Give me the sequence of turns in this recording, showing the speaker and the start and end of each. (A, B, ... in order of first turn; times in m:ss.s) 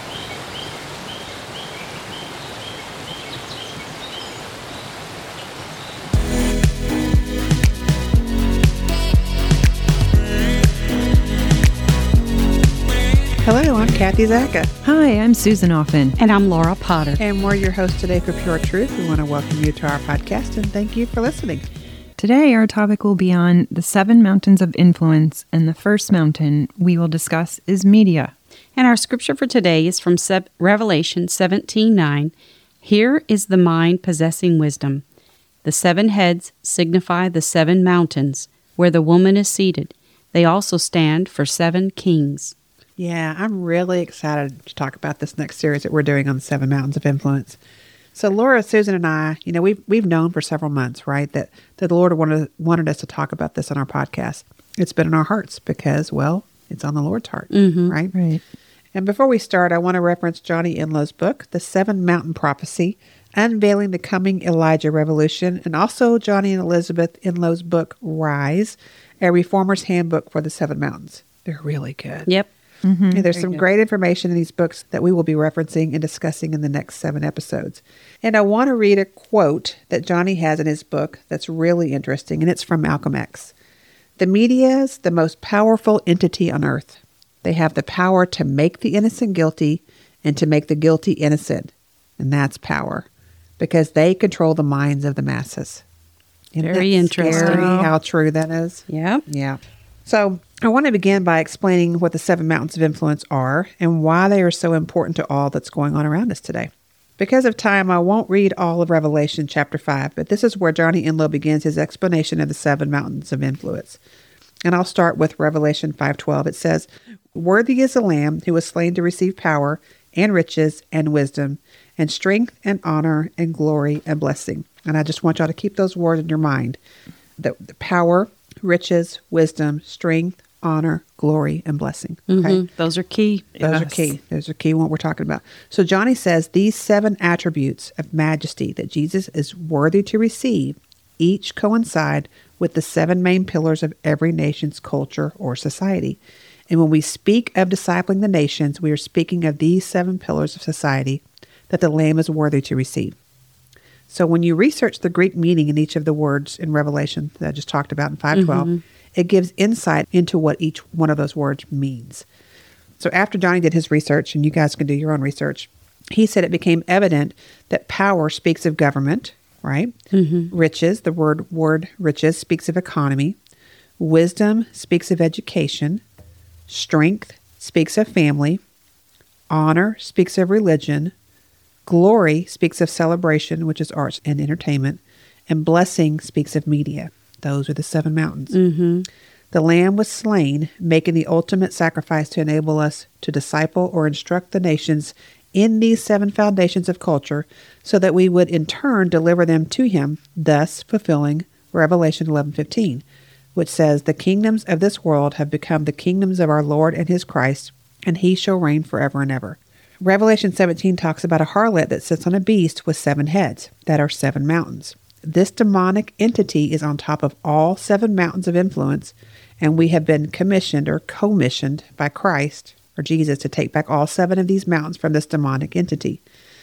0:13.4-0:14.7 A
0:14.8-0:16.2 B
0:16.2-0:17.2 C
0:17.2-0:21.6 A
0:22.2-0:28.3 B
0:28.8-0:35.0 C
0:35.6-0:42.5 C
0:43.0-0:47.6 A
0:48.1-0:58.2 A
0:57.5-0:57.9 C
0:58.1-0:58.4 B
0:58.9-1:12.3 A
1:12.8-1:13.3 B
1:13.1-1:23.5 A
1:24.2-1:33.1 A
1:33.6-1:35.8 A
1:36.5-1:54.0 A
1:36.6-1:37.8 C
1:37.2-1:37.9 B
1:38.9-1:39.2 C
1:54.6-2:06.8 A
2:07.4-2:12.6 A
2:12.3-2:13.6 C
2:13.6-2:14.0 B
2:13.6-2:26.2 A
2:26.7-2:33.1 A
2:34.1-2:42.2 A
2:38.3-2:38.8 C
2:43.0-2:49.9 A
2:50.1-2:50.5 C
2:50.5-2:53.4 A
2:54.0-2:56.0 A
2:56.7-2:58.6 A
2:59.5-3:01.1 A
3:01.8-3:08.6 A
3:08.5-3:09.1 C
3:09.5-3:23.0 A
3:23.5-3:46.2 A